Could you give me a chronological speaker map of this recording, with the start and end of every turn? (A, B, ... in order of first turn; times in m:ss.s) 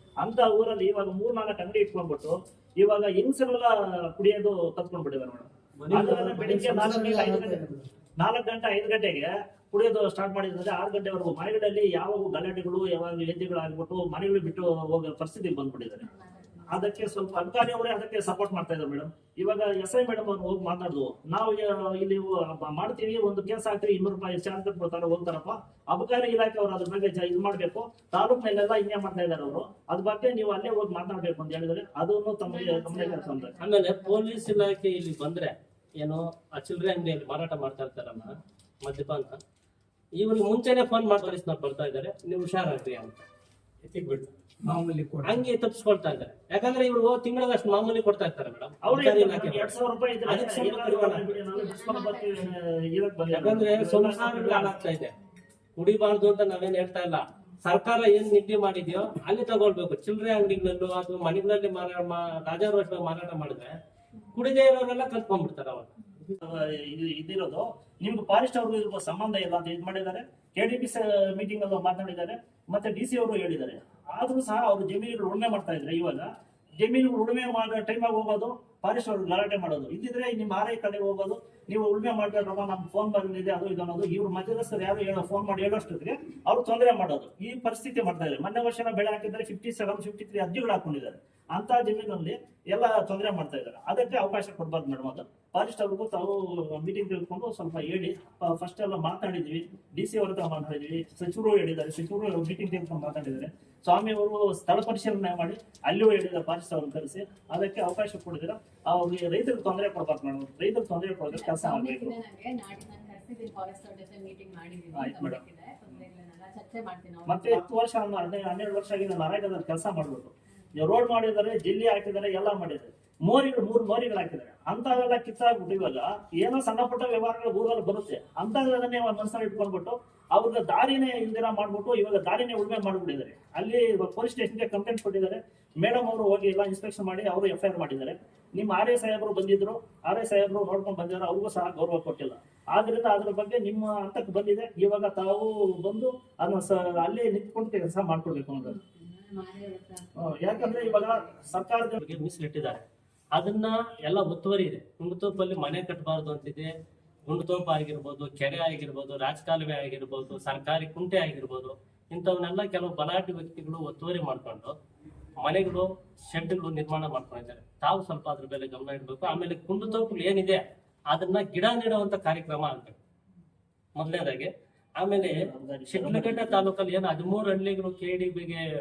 0:00.2-0:16.1 A
0:05.8-0:07.8 B
0:16.2-0:16.7 C
0:16.6-0:33.6 A
0:32.5-0:34.4 C
0:33.6-0:39.4 D
0:40.2-0:43.2 D
0:44.6-0:45.4 B
0:45.2-0:49.7 D
0:48.8-0:54.7 A
0:50.2-0:51.4 D
0:51.5-0:52.3 C
0:53.3-0:55.1 D
0:55.8-1:03.7 D
1:04.3-1:05.9 D
1:06.3-1:16.3 A
1:16.8-1:52.2 A
1:51.3-1:57.6 C
1:54.9-1:55.4 A
1:57.3-2:28.8 A
2:28.8-2:31.0 C
2:30.1-2:32.0 A
2:31.9-2:32.8 D
2:33.4-2:36.7 D
2:37.3-2:44.7 D
2:45.4-2:53.0 D
2:53.9-2:55.4 D
2:55.2-2:56.7 A
2:55.9-2:58.6 D